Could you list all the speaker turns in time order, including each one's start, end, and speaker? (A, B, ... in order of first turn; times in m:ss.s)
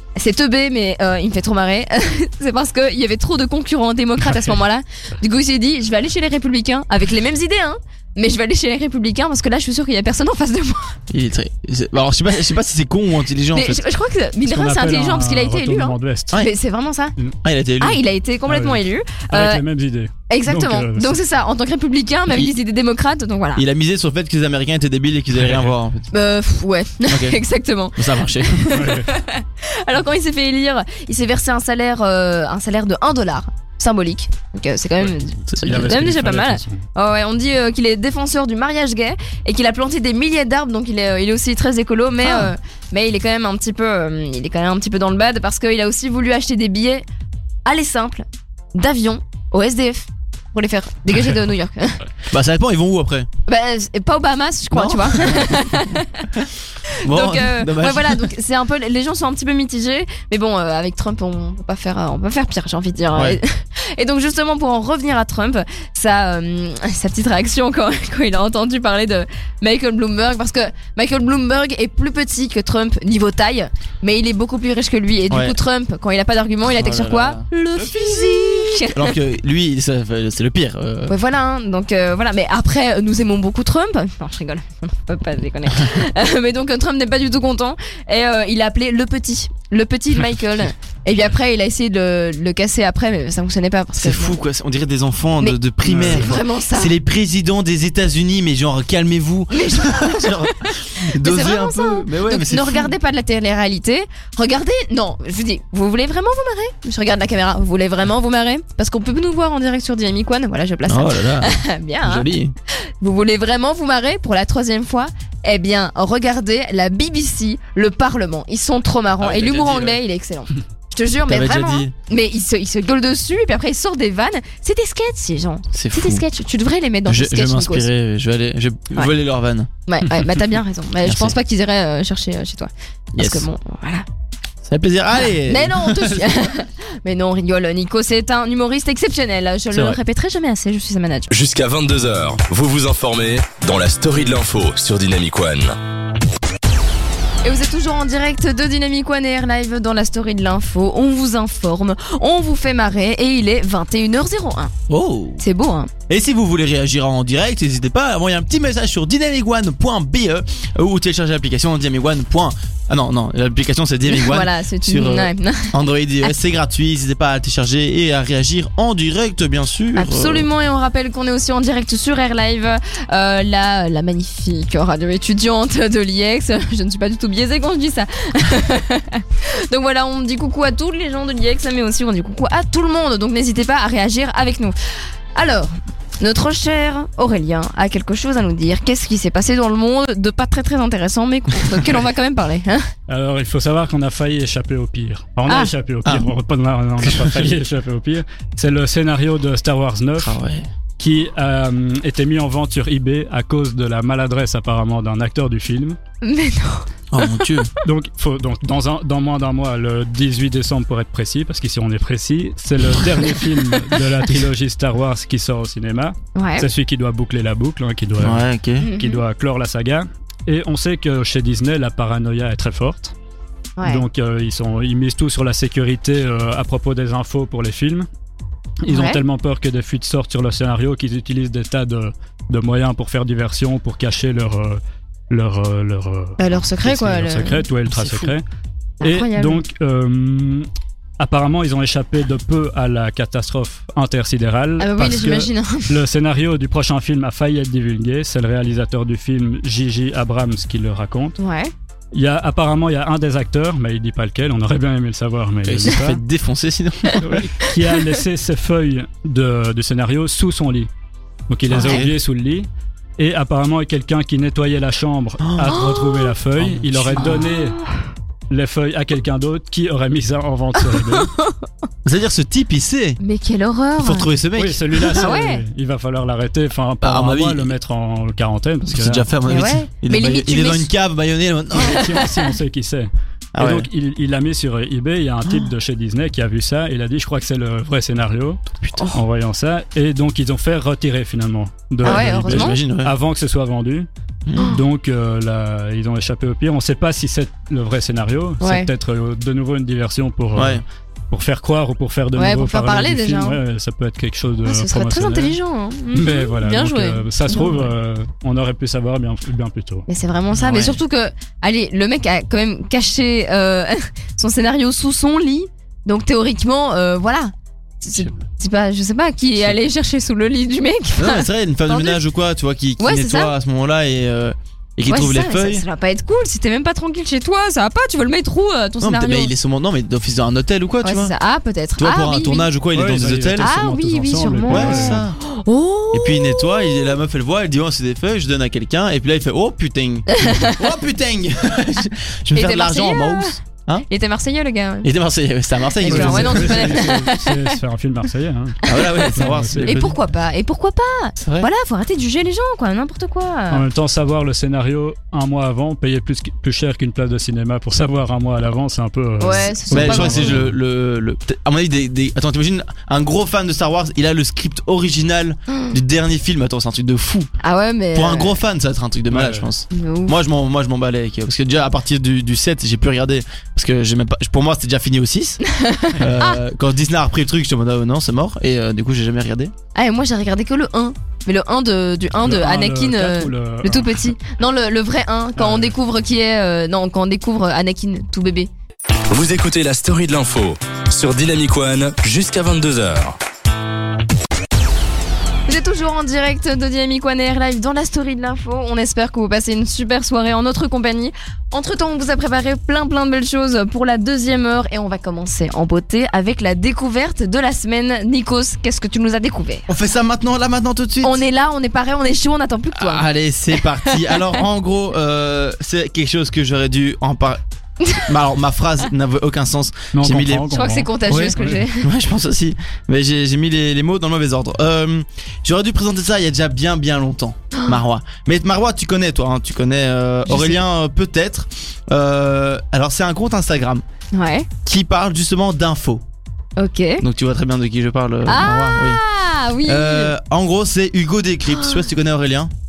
0:00.2-0:11.0 A
0:11.1-0:13.8 B
0:13.5-0:17.2 A
0:14.4-0:16.4 C
0:17.4-0:18.0 B
0:17.8-0:19.6 A
0:18.5-0:21.2 C
0:20.3-0:23.6 A
0:22.3-0:22.6 B
0:23.6-0:26.1 B
0:25.4-0:25.7 C
0:26.1-0:47.0 A
0:27.1-0:27.4 B
0:28.0-0:28.8 B
0:28.8-0:29.1 C
0:35.5-0:36.0 B
0:35.6-0:36.8 C
0:42.2-0:42.5 B
0:47.7-0:52.0 A
0:52.3-0:53.3 B
0:53.5-0:56.3 A
0:54.7-0:56.5 B
0:56.9-1:19.1 A
0:57.0-0:58.3 B
1:03.1-1:03.4 B
1:15.3-1:15.6 B
1:16.7-1:21.2 B
1:21.1-1:34.4 A
1:34.0-1:42.9 B
1:35.4-1:36.9 A
1:35.9-1:36.3 C
1:39.5-1:52.3 A
1:50.9-1:52.5 B
1:53.0-2:07.9 A
1:59.2-2:00.0 B
2:01.3-2:01.9 B
2:05.7-2:06.2 B
2:07.1-2:09.7 B
2:09.9-2:14.0 A
2:11.0-2:11.4 B
2:13.2-2:13.5 B
2:14.6-2:16.4 B
2:15.4-2:21.3 A
2:19.7-2:20.0 B
2:21.3-2:25.8 D
2:27.4-2:34.7 A
2:34.9-2:35.4 B
2:35.4-2:35.9 A
2:36.1-2:50.5 B
2:44.1-2:45.7 A
2:50.0-3:04.8 A
3:05.4-3:12.9 A
3:13.1-3:20.4 C
3:15.5-3:15.7 A
3:16.0-3:16.3 B
3:17.0-3:17.6 B
3:20.2-3:20.7 B
3:21.0-3:26.0 C
3:26.2-3:27.5 A
3:27.1-3:27.7 B
3:27.8-3:43.1 C
3:36.4-3:36.7 A
3:38.2-3:38.9 B
3:38.8-3:39.2 A
3:43.8-3:44.0 A
3:43.8-3:48.1 C
3:48.8-3:58.4 C
3:48.9-3:49.2 A
3:56.4-3:57.6 A
3:57.9-3:58.3 B
3:59.0-3:59.6 A
3:59.0-4:00.7 C
4:01.2-4:11.4 C
4:04.8-4:06.0 A
4:11.4-4:11.7 A
4:12.1-4:16.2 C
4:15.6-4:17.5 B
4:17.1-4:17.7 A
4:17.2-4:20.9 C
4:21.5-4:27.8 C
4:21.7-4:22.2 B
4:21.7-4:22.1 A
4:25.4-4:25.8 B
4:25.7-4:26.4 A
4:26.6-4:27.5 B
4:27.2-4:28.0 A
4:28.5-4:31.3 C
4:30.8-4:31.7 A
4:32.0-4:33.2 B
4:33.2-4:34.3 A
4:34.0-4:35.3 B
4:34.6-4:39.3 C
4:35.1-4:35.6 A
4:37.0-4:37.7 B
4:38.9-4:42.1 B
4:39.5-4:40.9 A
4:41.7-4:48.6 C
4:41.8-4:42.4 A
4:43.6-4:43.9 B
4:49.0-4:49.2 A
4:49.1-4:54.1 C
4:52.0-4:53.1 B
4:52.0-4:52.8 A
4:54.5-4:54.8 B
4:54.6-5:05.6 C
4:58.6-4:58.9 A
5:00.6-5:00.8 B
5:02.4-5:03.6 A
5:04.6-5:07.8 A
5:06.1-5:10.1 C
5:10.1-5:22.2 A
5:10.6-5:11.0 B
5:21.2-5:25.8 B
5:23.0-5:23.5 A
5:25.1-5:29.5 A
5:29.0-5:31.3 B
5:31.0-5:32.7 A
5:32.0-5:33.8 B
5:32.9-5:35.2 C
5:33.6-5:37.1 A
5:34.6-5:35.4 B
5:36.1-5:44.1 B
5:40.3-5:40.9 A
5:42.6-5:45.1 A
5:45.0-5:47.1 B
5:46.0-5:47.8 A
5:46.0-5:50.1 C
5:48.8-5:50.2 B
5:48.9-5:53.8 A
5:51.4-5:51.7 B
5:53.7-6:00.7 C
5:59.4-6:00.6 A
5:59.9-6:07.5 B
6:05.7-6:06.0 A
6:07.6-6:08.6 A
6:08.1-6:15.6 B
6:09.3-6:09.7 C
6:09.9-6:10.4 A
6:15.6-6:16.6 A
6:16.2-6:19.7 B
6:20.0-6:28.7 A
6:22.4-6:24.2 C
6:25.6-6:25.9 C
6:29.3-6:33.4 D
6:35.7-6:49.9 A
6:49.9-6:51.4 B
6:51.2-6:53.3 A
6:53.0-6:57.6 B
6:54.0-6:54.6 A
6:58.1-7:00.7 B
7:00.1-7:01.8 C
7:00.7-7:02.1 A
7:01.3-7:14.0 B
7:07.7-7:08.0 A
7:10.5-7:10.8 A
7:14.3-7:14.7 A
7:14.8-7:16.2 B
7:16.8-7:17.2 A
7:17.2-7:19.2 B
7:18.5-7:20.3 A
7:19.8-7:22.7 B
7:21.7-7:22.0 A